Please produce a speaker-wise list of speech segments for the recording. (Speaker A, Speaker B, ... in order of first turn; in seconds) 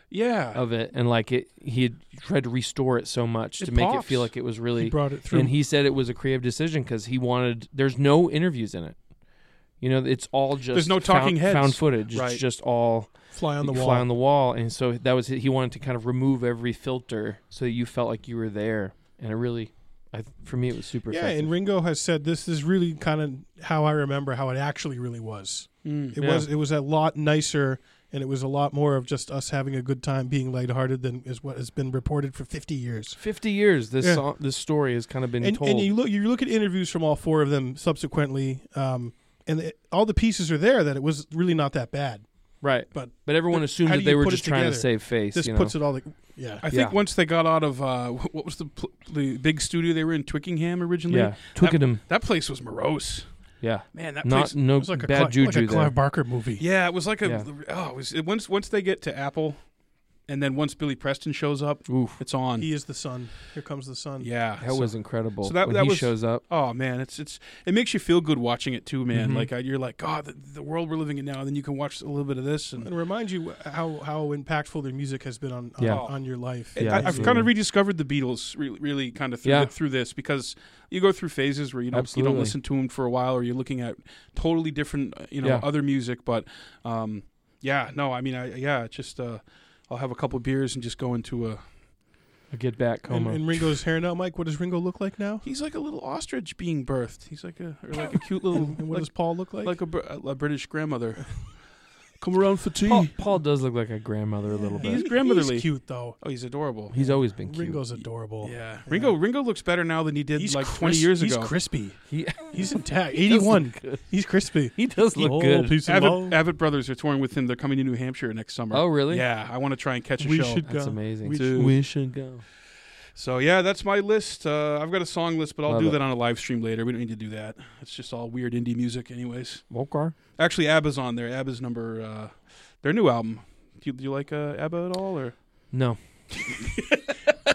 Speaker A: 0.1-0.6, 10.7-12.4, 25.8-26.1, 46.6-53.3, 53.9-54.5, 56.6-59.7, 60.3-62.7, 64.2-72.9, 75.8-91.7, 95.4-101.6, 102.2-103.1, 104.8-106.9, 108.4-111.5, 115.8-121.8, 123.1-129.7, 130.3-135.4, 136.5-136.8
Speaker B: 0.5-9.0, 9.8-21.5, 26.2-26.5, 33.2-35.9, 42.6-45.8, 46.7-47.0, 51.1-52.0, 53.6-55.9, 57.2-57.5, 61.9-62.2, 64.6-66.4, 69.1-69.5, 75.8-76.0, 76.7-77.5, 79.4-79.7, 81.9-82.5, 85.4-85.7, 92.5-93.5, 102.8-105.1, 106.9-108.0, 112.1-114.1, 114.7-115.8, 118.7-119.2, 120.6-122.4, 125.7-126.0, 129.7-130.1, 135.7-136.0
Speaker C: 3.6-5.5, 13.3-14.1, 21.1-33.2, 34.0-34.2, 35.4-46.6, 54.7-56.6, 62.6-64.3, 72.8-77.4, 93.1-95.4, 98.5-99.8, 104.5-106.2, 106.9-109.2, 110.3-116.4, 120.2-121.7